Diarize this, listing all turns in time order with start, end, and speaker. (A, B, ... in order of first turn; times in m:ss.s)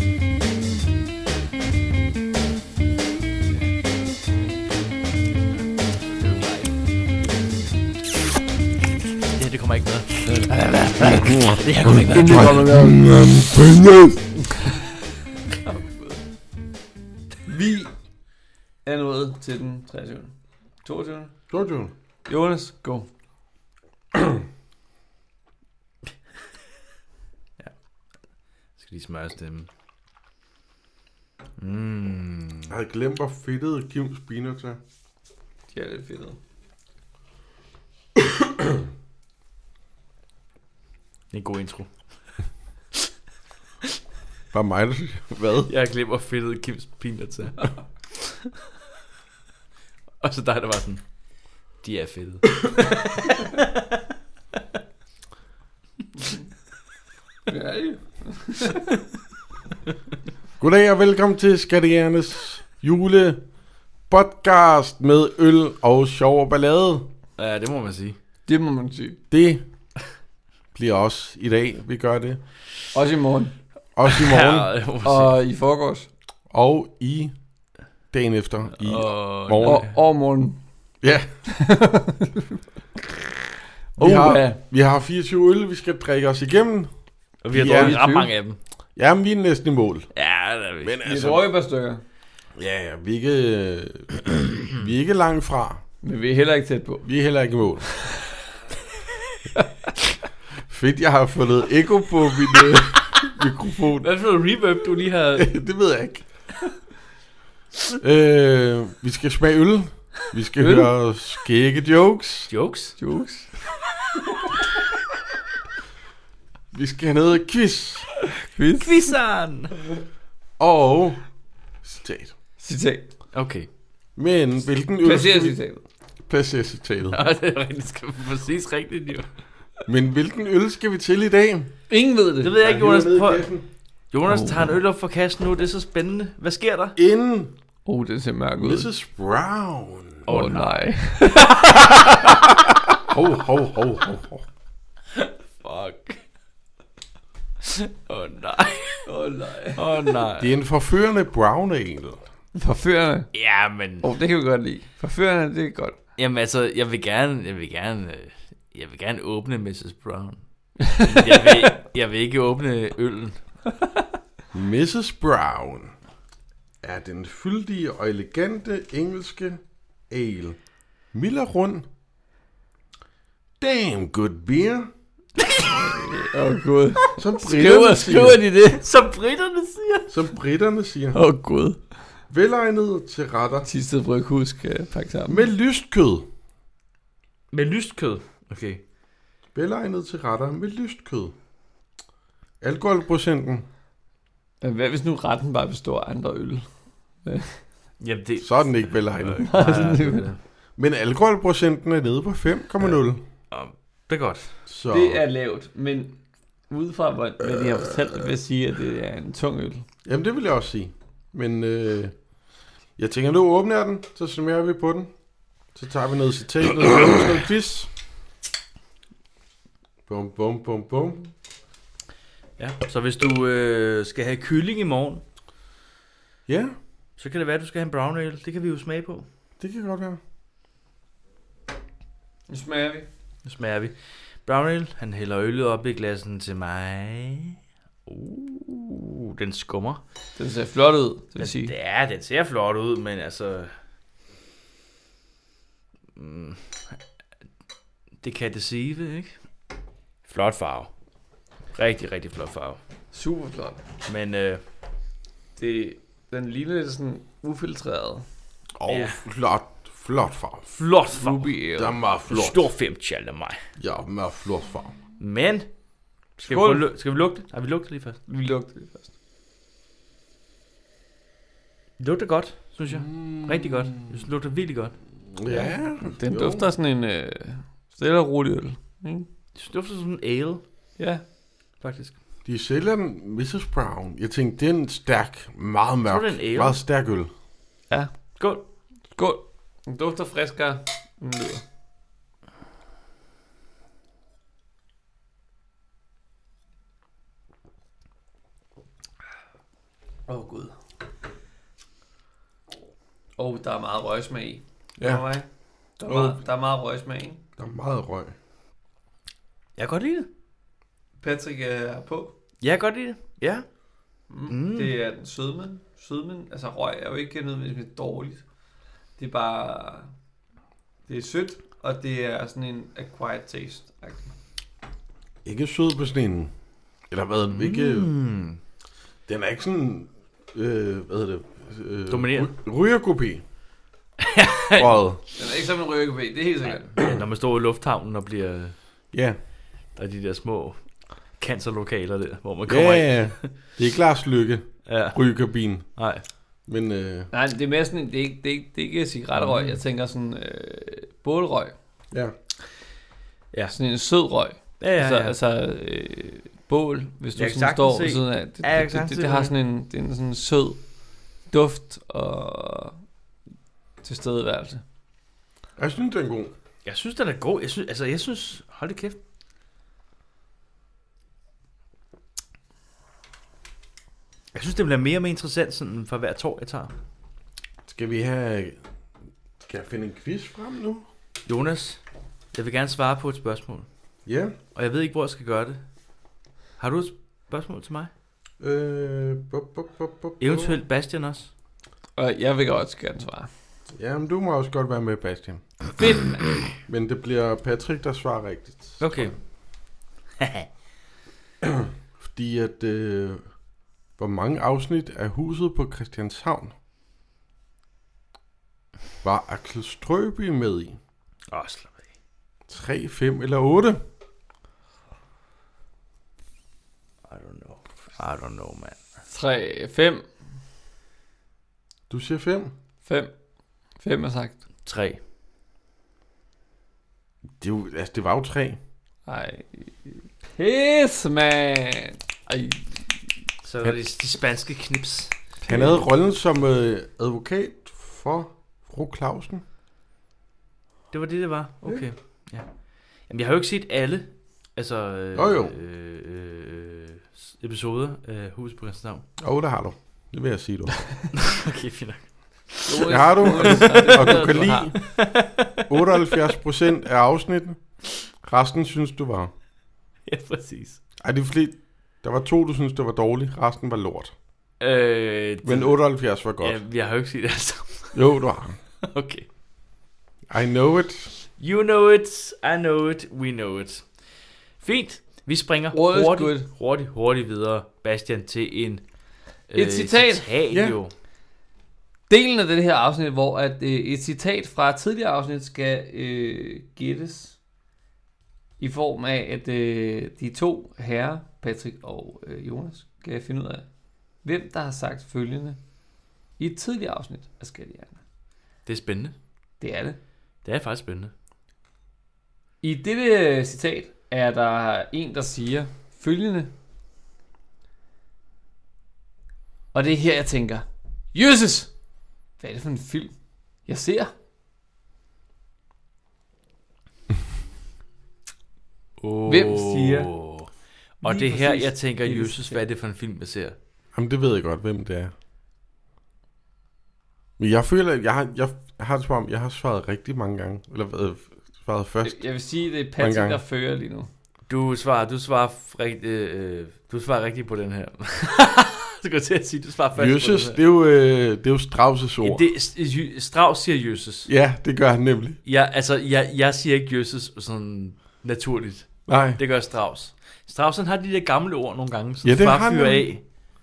0:06.1-0:06.8 A
0:09.3-0:12.7 A
0:11.0-0:14.3 B
0:12.1-0:13.0 C
0:15.6-0:16.1 C
0:17.5-0:17.9 C
0:18.8-0:21.3 C
0:21.5-0:21.9 B
0:22.3-0:23.1 C
0:28.8-0:29.7 A
0:31.6-0:32.7 A
0:32.7-0:34.8 B
0:35.7-0:36.4 C
0:41.3-0:41.9 A
0:44.5-0:45.7 B
0:45.7-0:48.3 A
0:50.2-0:51.0 A
0:51.8-0:53.8 A
0:57.5-0:58.8 C
1:00.6-1:03.4 B
1:04.1-1:07.1 B
1:07.4-1:08.2 A
1:08.5-1:09.2 C
1:09.3-1:09.6 B
1:10.7-1:12.4 B
1:12.9-1:13.6 C
1:14.0-1:14.7 B
1:14.1-1:15.4 A
1:15.0-1:16.1 C
1:16.5-1:17.3 B
1:18.1-1:19.9 B
1:18.8-1:20.0 A
1:19.6-1:20.6 C
1:21.0-1:21.3 B
1:21.5-1:22.4 C
1:24.0-1:24.6 C
1:24.0-1:26.9 B
1:27.4-1:28.0 B
1:27.4-1:28.6 A
1:27.6-1:28.3 C
1:29.0-1:30.1 B
1:30.1-1:31.0 A
1:30.8-1:31.5 B
1:31.0-1:32.0 C
1:32.6-1:35.8 B
1:36.0-1:37.1 C
1:37.0-1:37.9 B
1:40.7-1:44.1 B
1:44.0-1:45.5 A
1:45.4-1:46.3 B
1:48.0-1:52.5 B
1:50.6-1:50.9 C
1:52.5-1:53.0 A
1:53.0-1:53.5 C
1:56.7-1:58.1 B
1:58.5-1:59.2 C
1:58.8-1:59.7 A
2:00.6-2:01.2 B
2:01.8-2:02.3 B
2:02.6-2:03.1 C
2:03.3-2:03.7 A
2:04.2-2:05.6 B
2:05.0-2:05.8 C
2:06.3-2:07.2 B
2:07.1-2:09.3 A
2:09.9-2:11.8 B
2:11.9-2:12.6 C
2:12.4-2:13.6 A
2:12.6-2:13.6 B
2:14.1-2:17.0 A
2:14.2-2:14.8 C
2:17.0-2:17.5 B
2:17.8-2:18.9 C
2:18.6-2:20.4 B
2:20.3-2:21.9 A
2:20.3-2:22.5 C
2:23.1-2:24.4 B
2:25.2-2:26.2 A
2:27.8-2:29.1 A
2:29.0-2:29.8 C
2:29.8-2:30.5 A
2:30.4-2:32.3 B
2:32.6-2:33.3 C
2:33.3-2:34.1 A
2:34.0-2:36.0 C
2:36.2-2:43.4 A
2:44.5-2:45.9 B
2:46.8-2:50.6 B
2:51.1-2:51.9 B
2:53.6-2:54.9 B
2:55.5-2:55.8 A
2:55.7-2:58.8 C
2:57.2-2:58.4 B
2:58.6-3:00.1 A
3:00.1-3:01.2 B
3:01.1-3:01.8 C
3:02.3-3:03.7 B
3:03.6-3:05.5 C
3:05.3-3:06.3 B
3:07.5-3:08.8 A
3:09.6-3:11.3 B
3:12.6-3:13.6 B
3:14.6-3:16.6 C
3:17.2-3:17.6 C
3:18.0-3:20.4 A
3:18.4-3:19.8 B
3:19.4-3:20.3 C
3:20.8-3:23.2 B
3:23.5-3:24.5 A
3:24.7-3:25.2 B
3:24.9-3:26.2 C
3:26.7-3:29.8 C
3:30.0-3:32.2 B
3:33.0-3:35.1 B
3:35.7-3:37.9 B
3:40.1-3:41.3 B
3:42.6-3:45.2 A
3:46.5-3:46.8 B
3:47.2-3:49.3 A
3:49.6-3:50.2 B
3:52.5-3:53.1 C
3:53.4-4:00.0 A
4:00.4-4:01.7 C
4:01.4-4:03.7 A
4:06.2-4:06.6 A
4:08.2-4:09.3 A
4:10.3-4:10.9 A
4:11.7-4:12.8 A
4:13.1-4:13.8 C
4:14.1-4:14.6 A
4:15.6-4:18.3 C
4:18.8-4:20.7 B
4:18.9-4:19.2 A
4:20.7-4:21.6 A
4:21.1-4:22.0 C
4:21.8-4:22.7 B
4:22.3-4:23.6 A
4:23.8-4:25.0 B
4:25.2-4:25.7 A
4:26.4-4:26.9 C
4:26.4-4:28.2 A
4:28.3-4:29.1 C
4:32.0-4:35.0 A
4:32.9-4:34.2 B
4:35.3-4:36.7 B
4:35.5-4:39.3 C
4:39.6-4:40.6 A
4:41.0-4:41.2 C
4:41.8-4:42.2 A
4:42.5-4:47.3 B
4:46.1-4:46.8 A
4:47.9-4:48.2 C
4:48.4-4:48.6 A
4:49.1-4:51.6 C
5:00.3-5:00.8 C
5:03.4-5:05.5 C
5:05.0-5:05.3 B
5:06.0-5:07.4 C
5:06.1-5:06.4 B
5:07.6-5:08.3 B
5:09.8-5:10.3 A
5:11.2-5:12.3 C
5:12.6-5:13.7 A
5:14.3-5:18.4 C
5:14.5-5:15.0 A
5:19.2-5:20.1 C
5:21.1-5:24.3 C
5:25.4-5:26.5 B
5:27.1-5:28.1 B
5:27.5-5:28.6 A
5:29.3-5:33.4 B
5:32.1-5:32.5 A
5:34.2-5:35.0 A
5:34.8-5:35.2 B
5:35.4-5:37.0 C
5:36.7-5:38.8 A
5:40.0-5:40.8 A
5:41.3-5:43.5 A
5:42.7-5:45.9 B
5:44.9-5:45.2 A
5:46.0-5:46.2 A
5:46.6-5:47.3 B
5:47.3-5:51.8 C
5:49.4-5:49.8 A
5:53.7-6:00.8 C
5:54.8-5:55.4 A
5:57.4-5:59.5 A
6:01.5-6:03.0 C
6:04.0-6:04.8 C
6:05.8-6:06.5 B
6:06.8-6:09.2 A
6:14.5-6:16.9 A
6:17.9-6:18.8 B
6:19.6-6:21.0 B
6:21.5-6:22.0 A
6:22.5-6:23.9 A
6:24.3-6:24.6 B
6:24.8-6:25.8 A
6:26.8-6:28.1 A
6:28.6-6:30.8 B
6:30.4-6:31.5 A
6:32.2-6:33.5 C
6:34.0-6:35.6 B
6:36.0-6:36.6 C
6:36.7-6:39.3 B
6:39.0-6:39.4 A
6:40.4-6:40.7 A
6:41.6-6:43.4 B
6:44.2-6:46.7 B
6:49.2-6:51.0 B
6:51.5-6:52.1 A
6:52.7-6:54.0 B
6:57.3-6:59.0 A
6:59.3-7:00.3 C
7:02.1-7:02.7 B
7:03.0-7:03.3 C
7:04.0-7:04.6 C
7:04.9-7:05.2 A
7:07.6-7:08.8 B
7:09.3-7:13.2 C
7:13.6-7:15.4 A
7:15.6-7:19.6 B
7:15.7-7:16.1 C
7:21.1-7:22.7 A
7:23.3-7:29.2 A
7:25.4-7:25.7 B
7:29.4-7:31.1 B
7:31.3-7:35.6 A
7:32.9-7:34.9 C
7:33.1-7:35.2 B
7:35.9-7:39.5 B
7:40.3-7:41.0 A
7:41.2-7:44.3 B
7:44.8-7:46.0 A
7:45.6-7:46.8 B
7:46.6-7:48.3 A
7:48.1-7:48.8 B
7:49.1-7:49.5 A
7:50.5-7:51.3 B
7:51.6-7:54.1 A
7:54.8-7:59.0 A
7:55.9-7:56.7 C
7:59.7-8:01.1 A
7:59.7-8:00.5 C
8:00.7-8:01.0 B
8:02.3-8:07.6 C
8:08.8-8:13.9 C
8:14.4-8:15.8 C
8:16.6-8:18.2 C
8:18.9-8:19.4 A
8:19.8-8:20.2 C
8:20.6-8:21.3 A
8:22.8-8:26.7 C
8:29.9-8:31.9 C
8:32.6-8:34.3 C
8:39.2-8:43.8 A
8:39.5-8:40.3 C
8:41.2-8:42.8 C
8:44.2-8:45.3 B
8:47.6-8:53.6 B
8:52.2-8:54.3 C
8:54.7-9:00.8 A
9:00.2-9:02.7 B
9:02.4-9:04.5 A
9:04.5-9:05.6 B
9:05.6-9:13.4 A
9:09.3-9:09.6 B
9:12.4-9:13.3 B